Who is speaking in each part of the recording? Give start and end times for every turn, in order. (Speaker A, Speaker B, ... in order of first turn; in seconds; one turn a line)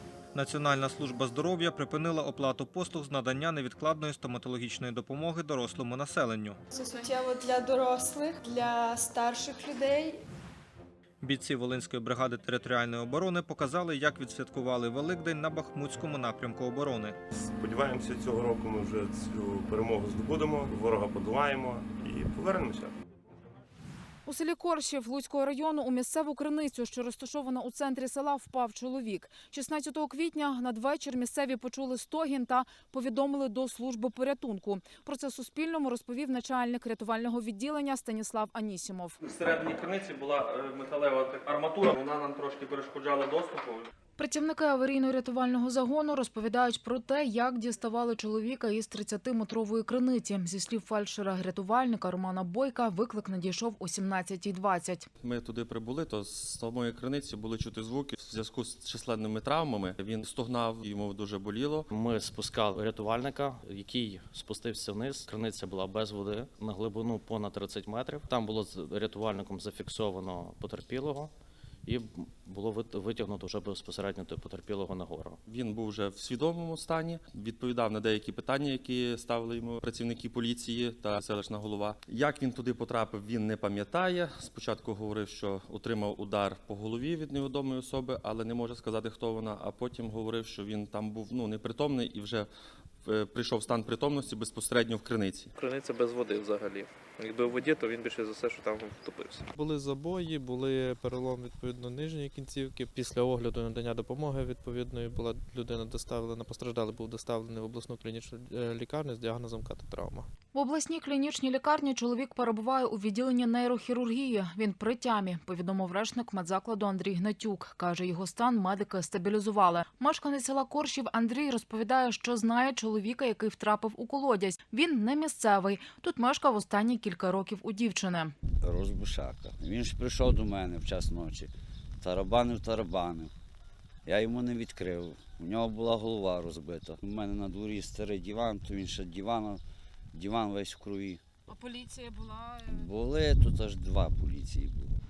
Speaker A: 0.3-6.6
Speaker B: 6.7-10.2
Speaker A: 11.2-17.2
Speaker C: 17.4-22.9
Speaker D: 24.2-39.2
Speaker E: 39.2-43.9
Speaker D: 44.2-55.1
Speaker E: 55.2-61.9
Speaker F: 61.9-71.3
Speaker F: 71.8-75.4
Speaker E: 75.5-92.5
Speaker E: 93.0-95.5
Speaker G: 95.6-99.4
Speaker H: 99.5-110.2
Speaker D: 110.5-128.3
Speaker I: 128.6-131.5
Speaker I: 132.0-133.3
Speaker I: 134.1-139.6
Speaker I: 140.1-141.2
Speaker D: 141.6-142.6
Speaker I: 142.8-144.9